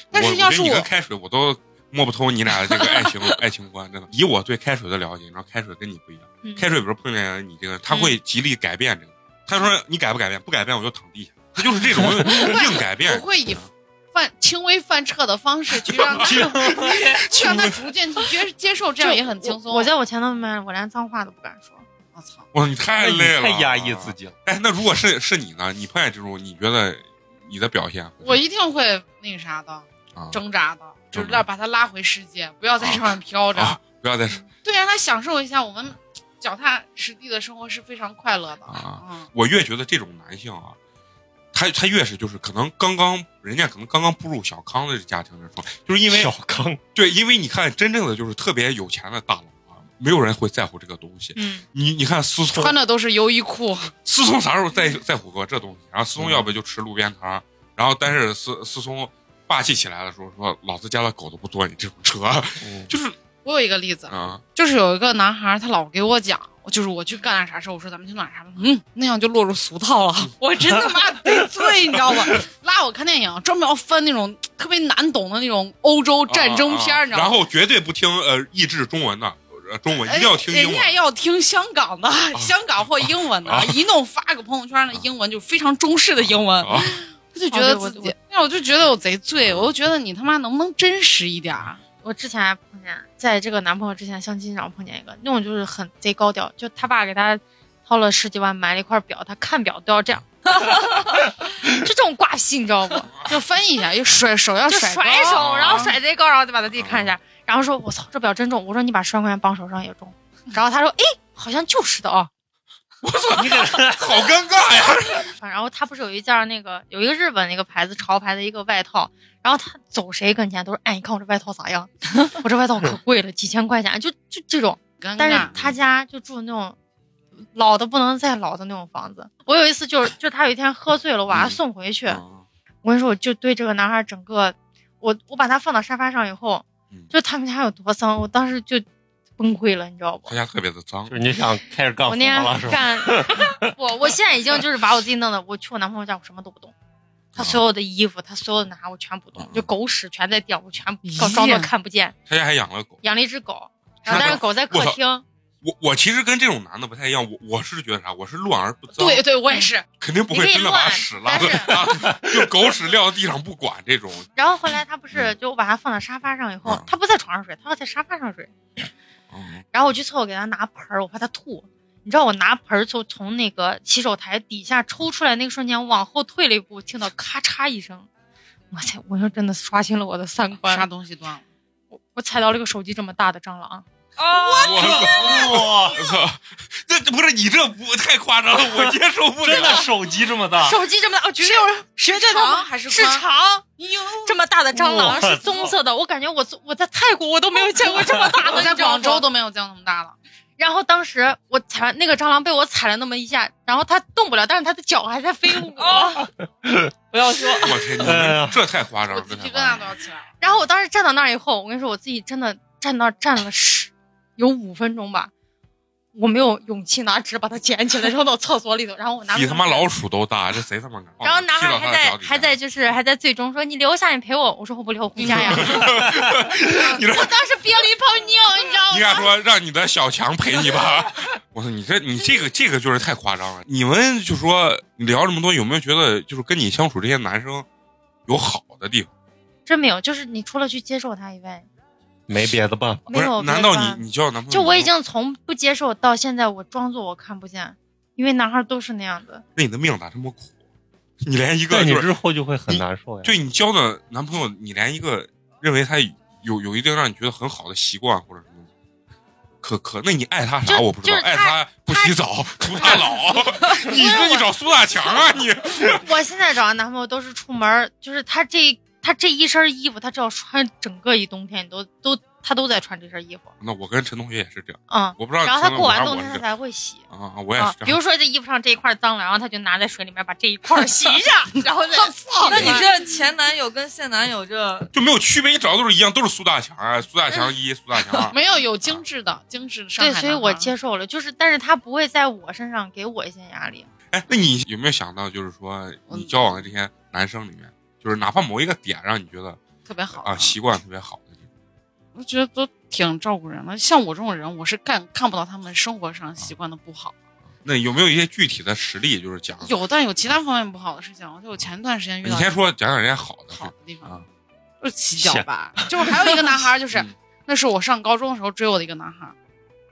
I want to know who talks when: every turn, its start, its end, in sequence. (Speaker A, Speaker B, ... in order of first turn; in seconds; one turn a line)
Speaker A: 0.1-0.9
Speaker B: 0.1-13.6
Speaker A: 12.1-19.9
Speaker B: 15.8-17.8
Speaker C: 16.2-17.3
Speaker D: 19.0-21.8
Speaker A: 22.1-22.5
Speaker B: 22.5-28.4
Speaker C: 23.0-24.3
Speaker A: 28.2-33.8
Speaker B: 30.1-30.4
Speaker B: 31.1-31.4
Speaker B: 32.8-34.5
Speaker A: 34.6-39.3
Speaker B: 38.7-40.8
Speaker B: 41.5-46.3
Speaker C: 46.1-46.8
Speaker B: 46.9-52.8
Speaker D: 51.4-51.6
Speaker A: 52.5-53.9
Speaker B: 54.0-63.2
Speaker C: 56.2-56.5
Speaker C: 62.6-62.9
Speaker A: 63.4-77.4
Speaker B: 64.1-64.4
Speaker B: 76.3-81.0
Speaker A: 80.0-91.8
Speaker B: 82.3-83.8
Speaker B: 86.2-87.0
Speaker D: 87.5-88.1
Speaker B: 89.4-89.7
Speaker D: 92.0-103.1
Speaker B: 103.1-103.3
Speaker A: 103.2-105.9
Speaker D: 104.7-112.3
Speaker B: 105.3-105.9
Speaker B: 106.8-107.1
Speaker B: 113.0-115.3
Speaker C: 113.3-114.1
Speaker D: 115.3-126.8
Speaker A: 125.0-125.5
Speaker B: 125.4-125.8
Speaker D: 127.5-132.2
Speaker B: 131.3-132.4
Speaker D: 132.8-138.8
Speaker D: 139.4-140.3
Speaker B: 140.3-141.2
Speaker C: 141.1-143.6
Speaker D: 142.1-146.7
Speaker B: 147.3-147.6
Speaker D: 147.3-152.1
Speaker B: 149.4-149.7
Speaker A: 151.0-151.7
Speaker B: 152.3-153.0
Speaker D: 153.0-155.2
Speaker B: 154.0-155.0
Speaker B: 155.6-159.2
Speaker A: 158.9-159.9
Speaker B: 160.0-164.3
Speaker D: 160.3-161.9
Speaker D: 164.3-168.5
Speaker B: 166.6-166.9
Speaker B: 169.3-169.6
Speaker D: 169.7-178.1
Speaker D: 178.7-180.9
Speaker A: 180.6-181.4
Speaker D: 181.9-183.8
Speaker E: 184.2-185.2
Speaker A: 184.2-185.7
Speaker B: 184.6-189.9
Speaker C: 184.6-186.0
Speaker C: 189.4-190.8
Speaker D: 190.6-193.7
Speaker A: 191.4-193.2
Speaker A: 193.8-194.3
Speaker D: 194.2-199.2
Speaker C: 194.7-195.7
Speaker A: 198.2-200.2
Speaker D: 200.6-206.2
Speaker E: 205.8-206.2
Speaker C: 206.6-206.9
Speaker E: 207.1-207.7
Speaker C: 207.5-208.6
Speaker B: 207.6-209.9
Speaker A: 209.1-210.3
Speaker D: 210.4-215.3
Speaker D: 216.1-219.9
Speaker B: 219.3-222.6
Speaker D: 221.2-226.0
Speaker B: 225.2-227.3
Speaker D: 226.8-229.3
Speaker B: 228.9-237.7
Speaker B: 238.3-239.1
Speaker D: 239.7-241.7
Speaker C: 242.3-243.1
Speaker D: 243.1-249.4
Speaker B: 243.1-244.9
Speaker B: 249.6-250.5
Speaker B: 251.2-252.1
Speaker C: 251.7-253.3
Speaker B: 252.7-258.7
Speaker B: 259.6-266.1
Speaker D: 260.6-262.1
Speaker D: 262.7-264.5
Speaker D: 265.8-273.5
Speaker B: 273.6-276.4
Speaker D: 274.9-282.9
Speaker B: 277.1-278.0
Speaker A: 282.0-282.8
Speaker E: 282.4-284.9
Speaker B: 284.9-288.4
Speaker A: 288.3-290.7
Speaker D: 290.0-293.9
Speaker B: 294.1-299.6
Speaker A: 296.1-296.6
Speaker A: 299.9-300.6
Speaker B: 300.2-301.4
Speaker A: 302.1-307.1
Speaker B: 307.6-309.7
Speaker A: 309.6-312.6
Speaker B: 312.2-314.2
Speaker A: 313.5-314.1
Speaker A: 314.8-319.3
Speaker C: 315.2-316.1